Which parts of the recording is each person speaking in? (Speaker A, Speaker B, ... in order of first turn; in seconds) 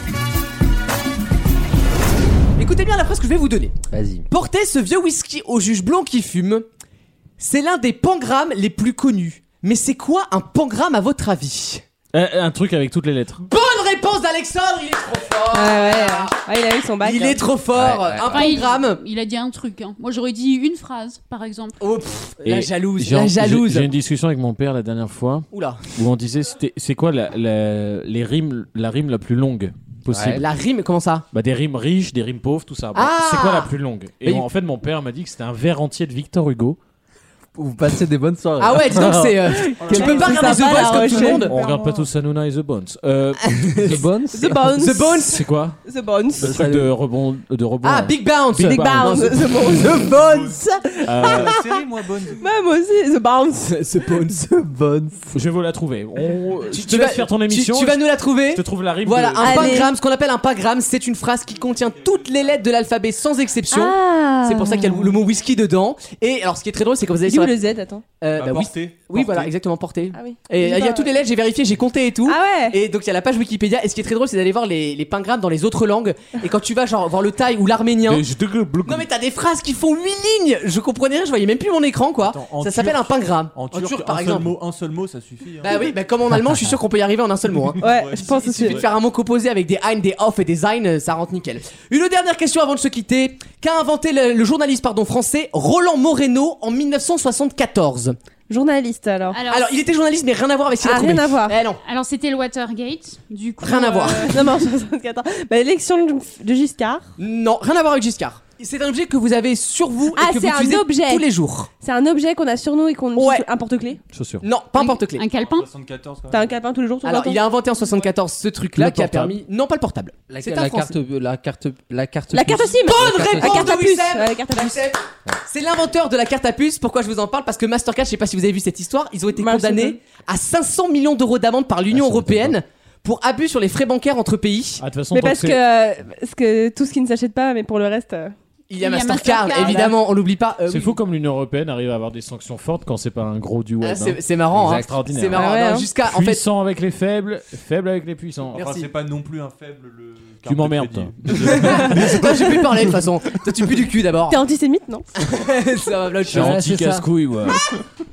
Speaker A: 2.6-3.8, 4.3-6.7, 7.4-11.8, 13.5-16.4, 17.0-19.0, 21.8-23.9, 25.5-25.8, 30.2-31.2, 32.9-33.7, 38.6-41.5, 44.7-45.4, 47.8-49.2, 56.7-67.5, 68.2-78.2, 78.8-84.5, 85.6-87.8, 88.4-98.2, 99.5-101.8, 103.6-104.3, 107.2-111.7, 113.2-113.4, 114.4-115.2, 117.0-120.9, 122.9-134.8, 138.7-140.9, 143.8-146.4, 148.6-148.8, 151.5-154.4, 155.2-156.6
Speaker B: 3.9-4.2, 17.7-18.3, 30.1-30.4, 37.5-39.6, 43.8-44.6, 46.4-46.9, 53.9-55.1, 120.3-123.7, 156.3-157.1
Speaker C: 12.1-13.4, 22.4-30.4, 31.3-36.8, 39.9-44.0, 45.2-45.8, 46.4-49.4, 51.0-51.5, 55.3-59.9, 78.0-79.1, 114.1-114.5, 118.8-119.4, 131.9-132.5, 134.8-135.6, 140.7-145.5, 146.0-148.7, 150.4-151.8, 156.2-157.6
Speaker D: 15.5-17.5, 39.6-41.6, 44.3-45.1, 45.8-46.5, 48.6-53.8, 59.4-59.9, 63.7-65.2, 67.2-68.0, 70.1-71.1, 72.2-72.8, 87.8-88.8, 98.5-99.4, 100.8-101.6, 103.6-107.0, 110.1-111.2, 111.8-114.0, 116.3-117.4, 122.3-124.8, 129.3-130.0, 135.1-138.3, 139.3-140.0, 145.3-145.9, 151.5-152.5, 154.3-155.1
Speaker E: 18.3-21.8, 99.3-99.7, 101.8-104.3, 115.1-115.7, 138.8-139.9
Speaker F: 41.5-42.0, 49.8-50.6, 51.2-52.5, 68.3-69.5, 82.2-85.8, 87.8-88.9, 115.3-116.5, 148.5-152.6